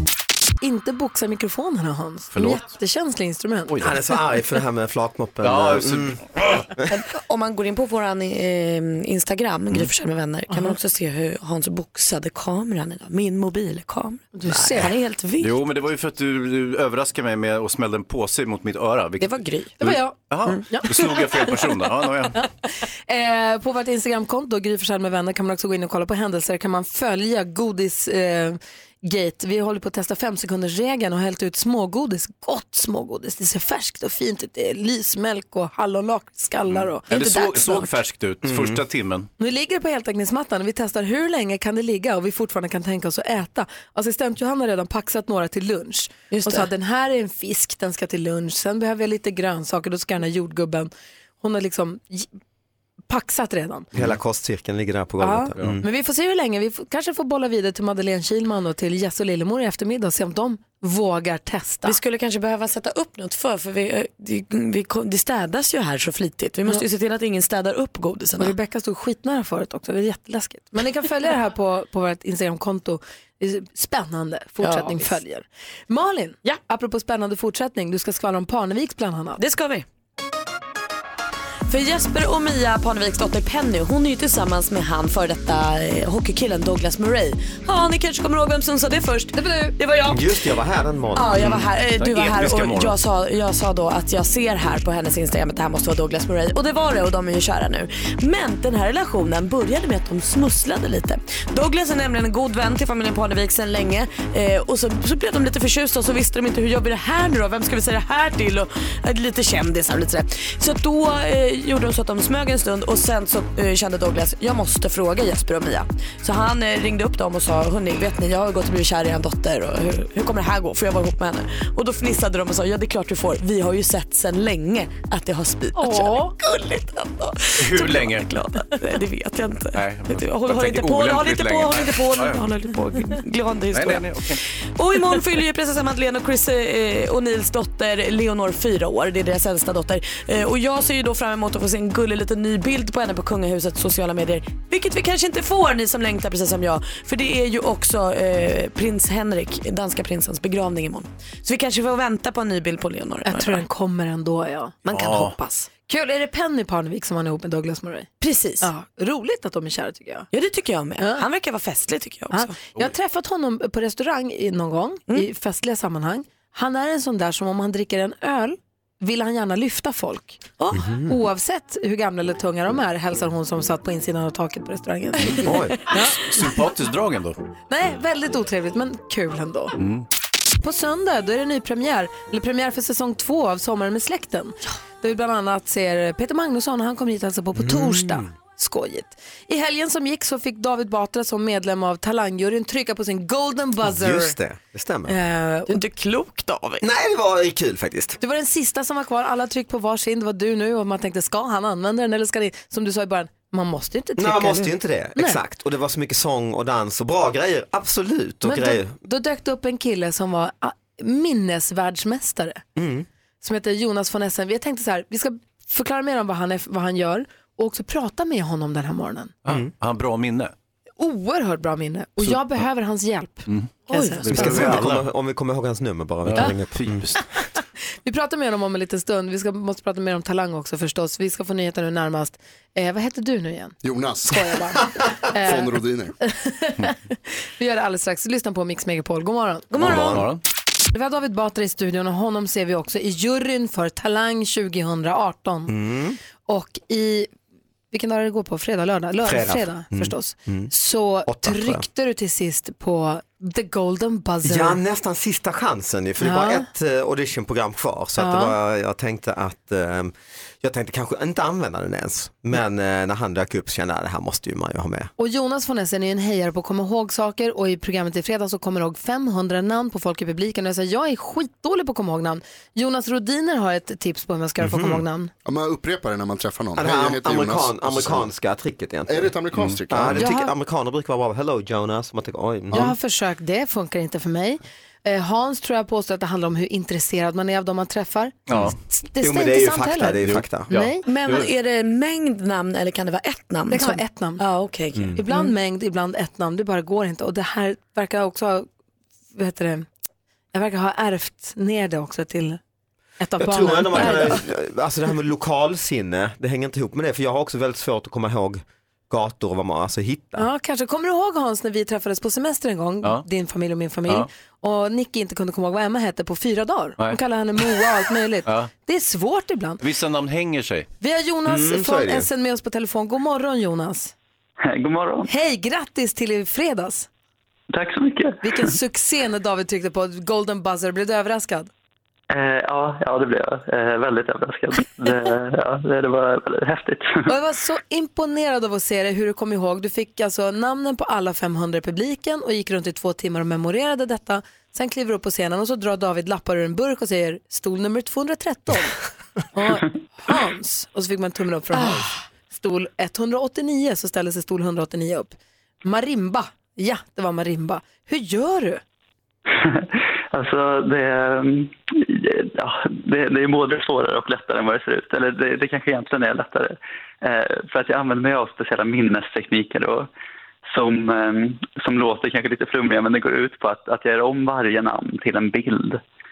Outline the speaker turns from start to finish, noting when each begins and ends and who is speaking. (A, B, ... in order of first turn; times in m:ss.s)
0:00.6-0:03.7 A
0:02.3-0:02.6 B
0:03.7-0:04.0 B
0:03.8-0:06.2 C
0:05.4-0:06.7 B
0:06.9-0:15.5 D
0:14.3-0:14.9 A
0:14.5-0:14.8 C
0:15.4-0:22.4 B
0:19.2-0:19.8 D
0:19.8-0:21.5 A
0:23.1-0:37.8 A
0:36.7-0:39.3 B
0:37.3-0:37.8 D
0:38.4-0:38.8 C
0:39.4-0:50.9 A
0:46.3-0:46.7 D
0:51.4-0:52.3 A
0:53.1-0:53.9 A
0:53.9-0:55.8 C
0:55.2-1:02.0 A
1:01.8-1:08.5 D
1:08.4-1:19.4 A
1:14.6-1:15.1 D
1:19.4-1:19.8 D
1:21.7-1:30.4 D
1:29.3-1:29.7 A
1:30.1-1:31.4 C
1:31.1-2:33.6 D
1:31.3-1:33.0 B
2:05.8-2:06.3 A
2:07.6-2:08.4 B
2:09.7-2:12.5 B
2:13.7-2:14.4 B
2:33.2-2:40.3 A
2:34.9-2:35.4 B
2:38.2-2:38.7 D
2:40.3-2:42.6 D
2:42.3-2:50.4 A
2:50.7-2:51.1 C
2:51.1-2:56.4 A
2:55.2-2:57.4 B
2:55.4-2:55.7 C
2:57.7-2:59.7 A
2:59.8-3:00.0 B
3:00.6-3:14.3 A
3:07.5-3:08.2 C
3:13.8-3:15.2 C
3:15.1-3:15.8 A
3:15.7-3:16.8 D
3:16.8-3:18.2 C
3:18.2-3:25.4 A
3:24.2-3:29.0 C
3:28.4-3:32.6 A
3:32.8-3:33.0 C
3:33.4-3:39.3 A
3:39.4-3:40.5 B
3:41.0-3:44.3 A
3:43.5-3:45.1 B
3:43.9-3:44.5 D
3:44.3-3:47.1 C
3:46.2-3:47.2 B
3:48.0-3:53.7 A
3:53.8-3:54.5 E
3:54.3-3:59.9 A
3:55.4-3:56.1 E
3:59.7-4:00.3 D
3:59.8-4:00.4 B
4:00.9-4:05.7 A
4:05.7-4:06.2 C
4:06.4-4:07.3 A
4:07.9-4:14.8 A
4:09.3-4:10.7 C
4:11.2-4:11.8 C
4:14.4-4:25.1 C
4:16.2-4:16.6 A
4:18.2-4:18.5 A
4:25.2-4:35.3 A
4:34.6-4:35.0 C
4:35.4-4:38.3 E
4:36.8-4:39.3 C
4:39.1-4:40.2 E
4:39.5-4:39.8 B
4:39.9-4:42.9 C
4:40.2-4:40.5 A
4:42.7-4:48.4 A
4:48.5-4:48.8 B
4:48.9-4:50.2 A
4:49.2-4:50.7 C
4:50.2-4:51.5 B
4:50.7-4:51.0 A
4:51.0-4:55.5 D
4:53.7-4:54.4 A
4:54.9-4:55.2 B
4:55.1-4:58.7 A
4:59.4-4:59.9 A
5:00.5-5:02.6 A
5:03.2-5:04.4 A
5:03.4-5:10.5 C
5:10.4-5:19.8 A
5:18.4-5:18.7 B
5:19.8-5:20.9 B
5:21.0-5:24.1 A
5:21.4-5:22.3 C
5:24.7-5:25.3 F
5:25.3-5:27.1 A
5:27.7-5:28.4 F
5:28.4-5:31.7 A
5:32.3-5:37.3 F
5:37.3-5:49.0 A
5:49.5-5:58.8 A
5:51.7-5:52.1 D
5:59.5-6:10.1 F
6:10.7-6:16.0 F